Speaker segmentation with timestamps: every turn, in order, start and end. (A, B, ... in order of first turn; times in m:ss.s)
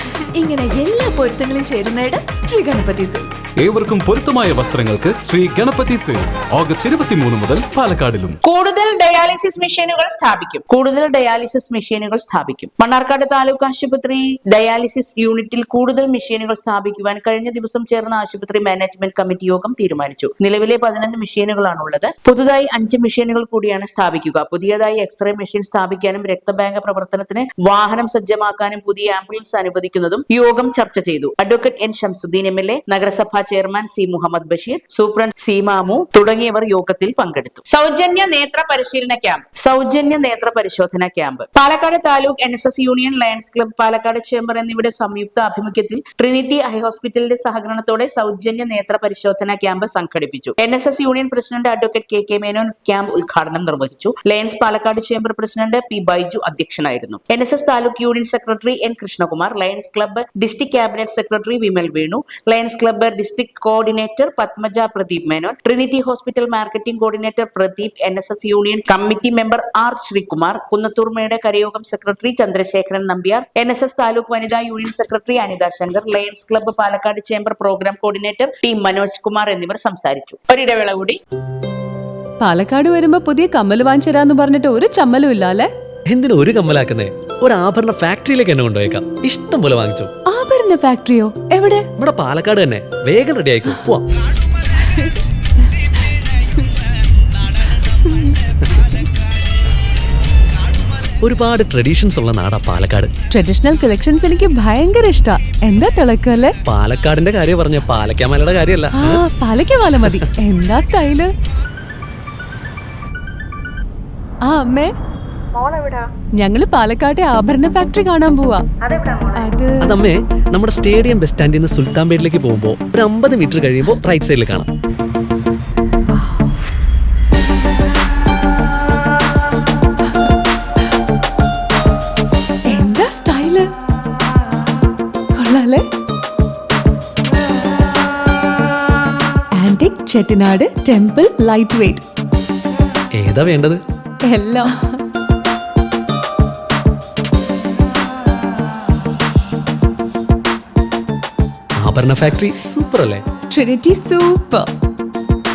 0:00.4-0:03.4 A
0:03.6-0:08.4 B
0:08.4-1:21.2 C
1:22.4-1:25.7 D
1:26.1-1:30.1 E
1:30.3-1:31.9 D
1:32.0-1:34.1 E
1:41.2-1:43.2 E
1:43.3-1:46.6 D
1:46.6-1:49.3 E
1:48.9-1:51.3 D
1:50.0-1:50.3 E
1:54.5-1:54.9 D
1:56.4-1:58.7 D
1:59.3-2:00.0 D
1:59.8-2:04.7 E
2:12.7-2:13.7 D
2:15.4-2:15.8 D
2:19.6-2:22.0 D
2:23.2-2:23.8 E
2:24.3-2:24.8 D
2:31.8-2:33.4 E
2:33.5-2:34.7 D